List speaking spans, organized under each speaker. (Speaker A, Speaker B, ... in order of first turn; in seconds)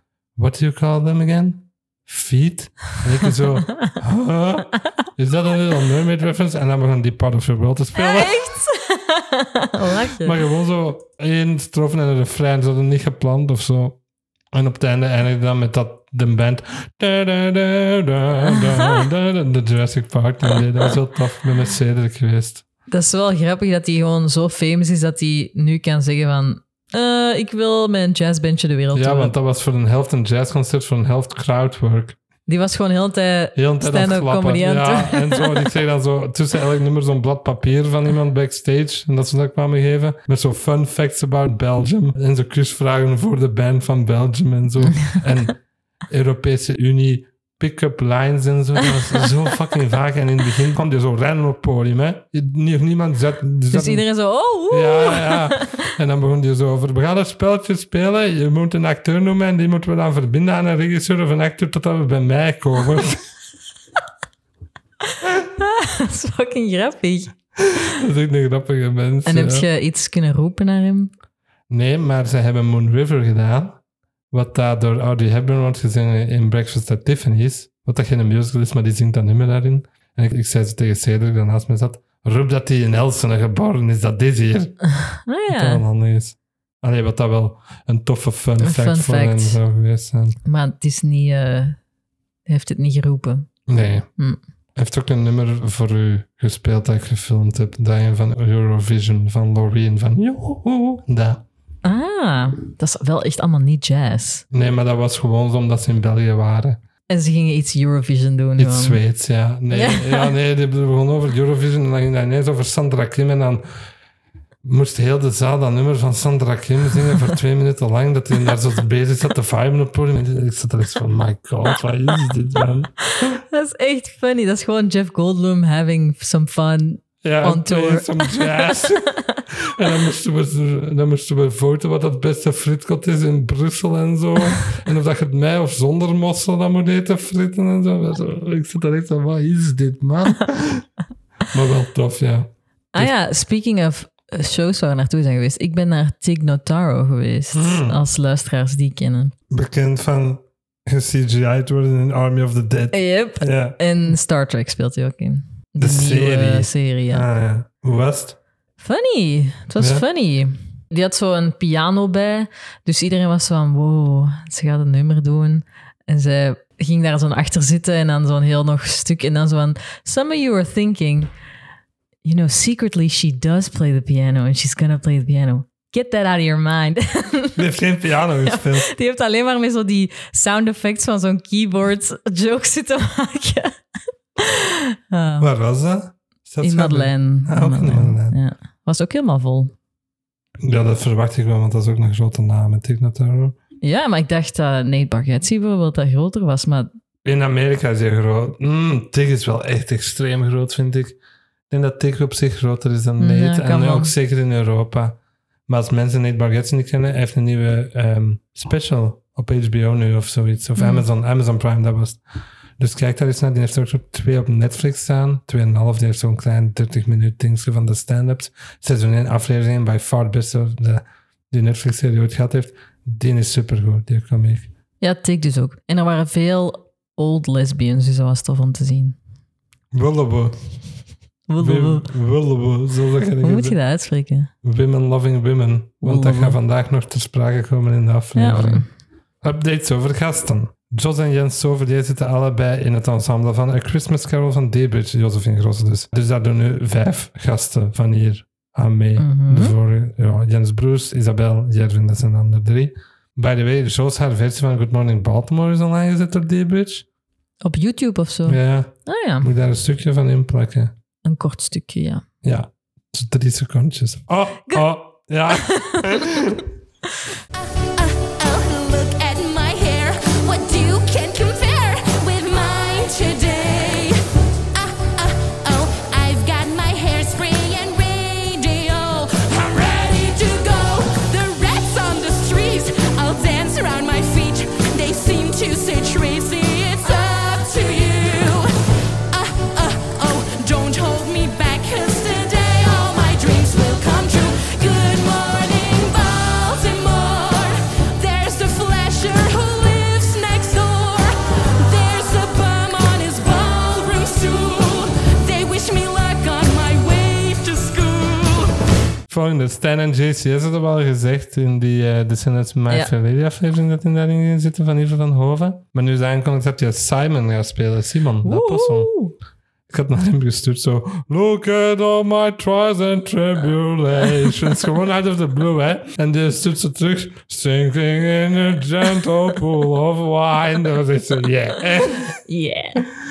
Speaker A: 0.4-8.4, 10.2-14.0, 14.5-22.6, 28.9-32.2, 33.5-54.1, 54.7-63.2, 67.8-69.7, 71.7-73.8, 74.3-84.8, 85.5-90.4, 93.7-94.1, 94.8-101.5, 104.5-106.8, 108.6-113.6, 114.6-123.4, 127.2-140.9, 141.5-143.1, 147.5-148.0, 149.5-153.8, 155.8-158.4, 159.8-160.1, 177.6-178.9, 185.4-188.4, 190.6-193.6, 197.2-201.2, 201.7-205.2, 205.7-212.2, 212.8-224.7, 229.9-230.6, 231.6-233.8, 234.6-238.9, 239.4-257.1, 258.5-260.9, 262.4-266.7, 309.3-319.1, 319.9-332.4
Speaker B: 8.0-10.3, 22.9-29.3, 32.5-35.7, 53.7-55.9, 65.4-67.3, 69.3-71.1, 85.0-85.8, 88.6-89.6, 90.5-91.8, 92.5-93.5, 101.8-104.4, 107.1-109.0, 109.7-110.3, 123.2-129.4, 142.9-149.3, 152.9-157.3, 158.8-171.3, 172.2-177.7, 178.4-183.7, 184.4-185.5, 186.6-189.7, 193.8-196.9, 203.2-204.1, 210.8-211.0, 225.0-229.2, 231.5-232.1, 233.4-234.5, 236.0-236.6, 238.4-238.9, 249.2-249.8, 257.6-259.5, 261.2-262.2, 265.5-266.3, 318.4-319.4, 332.5-333.1
Speaker C: 267.6-274.2, 274.7-288.7, 289.3-308.7